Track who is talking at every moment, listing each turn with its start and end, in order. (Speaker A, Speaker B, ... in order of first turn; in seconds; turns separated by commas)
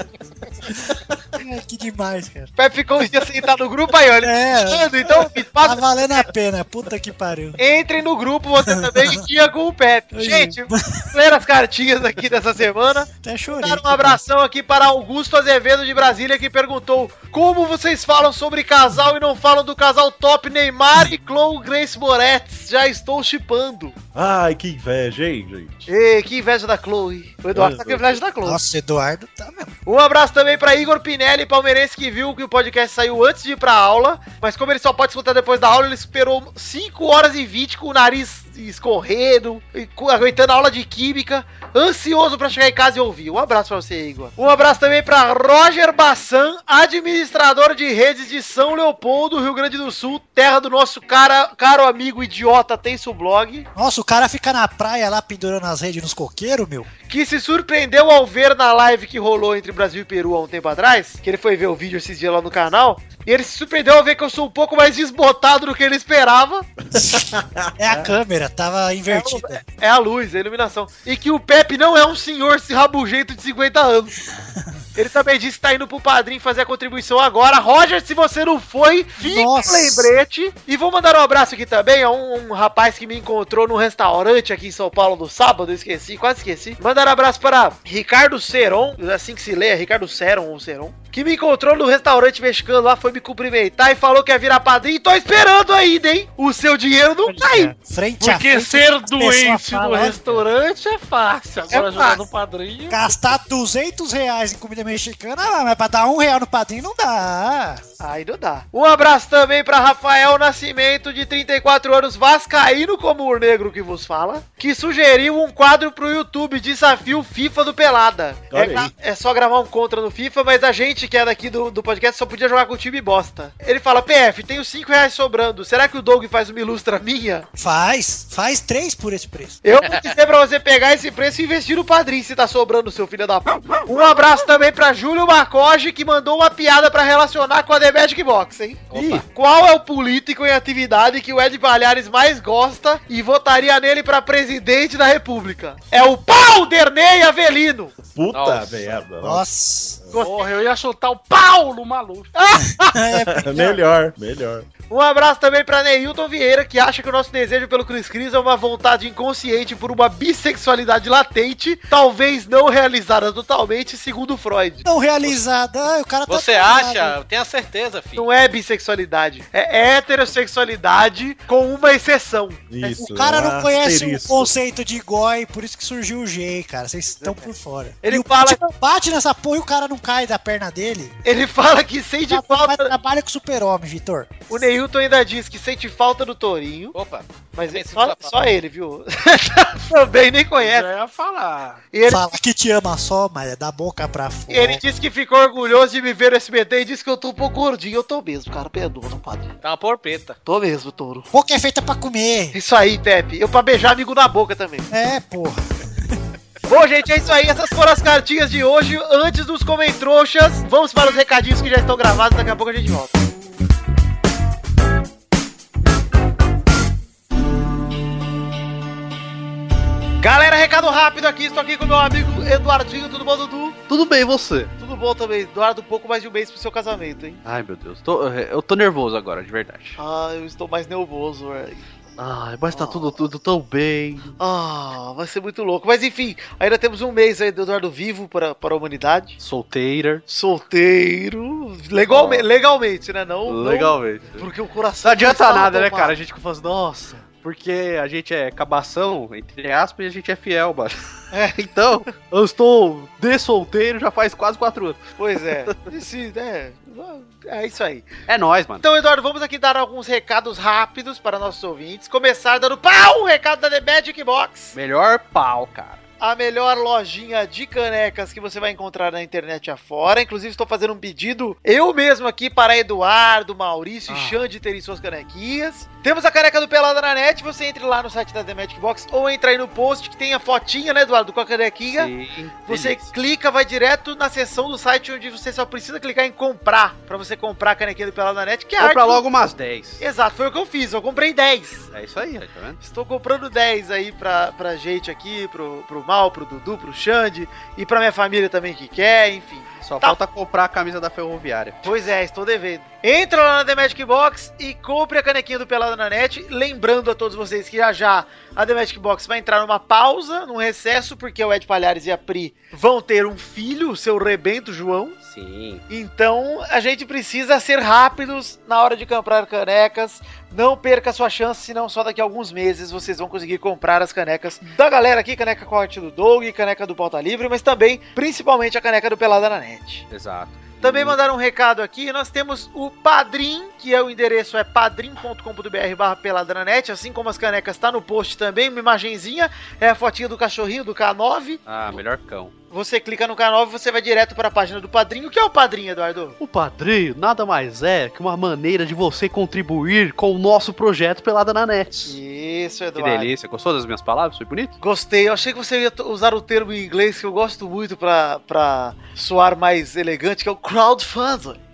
Speaker A: 1.4-2.5, Speaker B: 2.6-5.8, Speaker A: 4.2-7.6, Speaker B: 7.6-23.9, Speaker A: 8.7-9.2, Speaker A: 10.1-11.0, Speaker A: 13.1-14.2, Speaker C: 24.1-25.9, Speaker B: 25.9-28.6, Speaker C: 27.5-28.2, Speaker A: 28.4-29.7, Speaker B: 29.9-53.7, Speaker A: 53.7-56.9, Speaker B: 57.1-66.7, Speaker C: 66.9-68.1, Speaker A: 67.8-69.6, Speaker B: 69.1-74.1, Speaker B: 75.0-97.7, Speaker A: 79.2-80.1, Speaker A: 97.3-100.5, Speaker D: 98.2-103.1, Speaker B: 101.7-102.2, Speaker A: 102.9-107.8, Speaker B: 108.0-127.5, Speaker C: 118.5-118.9, Speaker A: 127.6-129.6, Speaker B: 129.6-147.9, Speaker E: 138.9-139.2, Speaker C: 148.1-150.2, Speaker F: 148.3-148.9, Speaker A: 149.2-150.1, Speaker B: 150.1-150.5, Speaker D: 150.2-152.3, Speaker B: 152.3-152.9, Speaker A: 152.8-153.8, Speaker C: 153.3-154.7, Speaker B: 154.9-164.8, Speaker A: 164.8-167.2, Speaker F: 166.3-168.2, Speaker B: 168.2-173.0, Speaker C: 172.7-174.5, Speaker A: 173.0-181.1, Speaker B: 177.2-177.5, Speaker B: 178.0-178.6, Speaker B: 181.2-182.9, Speaker A: 182.3-184.5, Speaker B: 184.5-186.9, Speaker F: 186.9-188.3, Speaker B: 187.6-190.9, Speaker D: 190.6-191.8, Speaker B: 191.9-192.3, Speaker A: 192.1-194.8, Speaker B: 194.5-199.4, Speaker F: 199.6-200.3, Speaker B: 200.4-201.2, Speaker A: 201.3-202.6, Speaker B: 202.5-204.9, Speaker A: 204.9-205.7, Speaker B: 206.7-213.2, Speaker B: 220.2-223.8, Speaker E: 223.9-224.7, Speaker B: 224.8-227.4, Speaker E: 227.4-230.0, Speaker B: 230.0-231.8, Speaker E: 232.2-234.3, Speaker B: 232.7-233.2, Speaker B: 234.4-239.4, Speaker E: 239.4-240.2, Speaker B: 240.3-246.2, Speaker E: 242.1-242.4, Speaker E: 243.4-244.5, Speaker E: 245.0-255.0, Speaker B: 251.3-251.6, Speaker B: 255.2-258.1, Speaker E: 258.3-258.8, Speaker B: 258.8-264.7, Speaker E: 264.7-266.0, Speaker B: 266.2-282.1, Speaker E: 274.1-274.4, Speaker E: 281.9-283.1, Speaker B: 282.6-289.2, Speaker E: 288.8-290.0, Speaker B: 290.0-291.9, Speaker E: 291.9-292.8, Speaker B: 292.8-300.2, Speaker E: 299.8-301.9, Speaker B: 301.8-315.1, Speaker E: 315.2-315.8, Speaker B: 315.9-330.1, Speaker E: 330.1-331.2, Speaker B: 330.8-341.6, Speaker E: 341.6-342.5, Speaker B: 342.7-346.4, Speaker E: 346.4-352.2, Speaker B: 352.0-353.3, Speaker E: 352.9-354.7, Speaker B: 354.8-361.6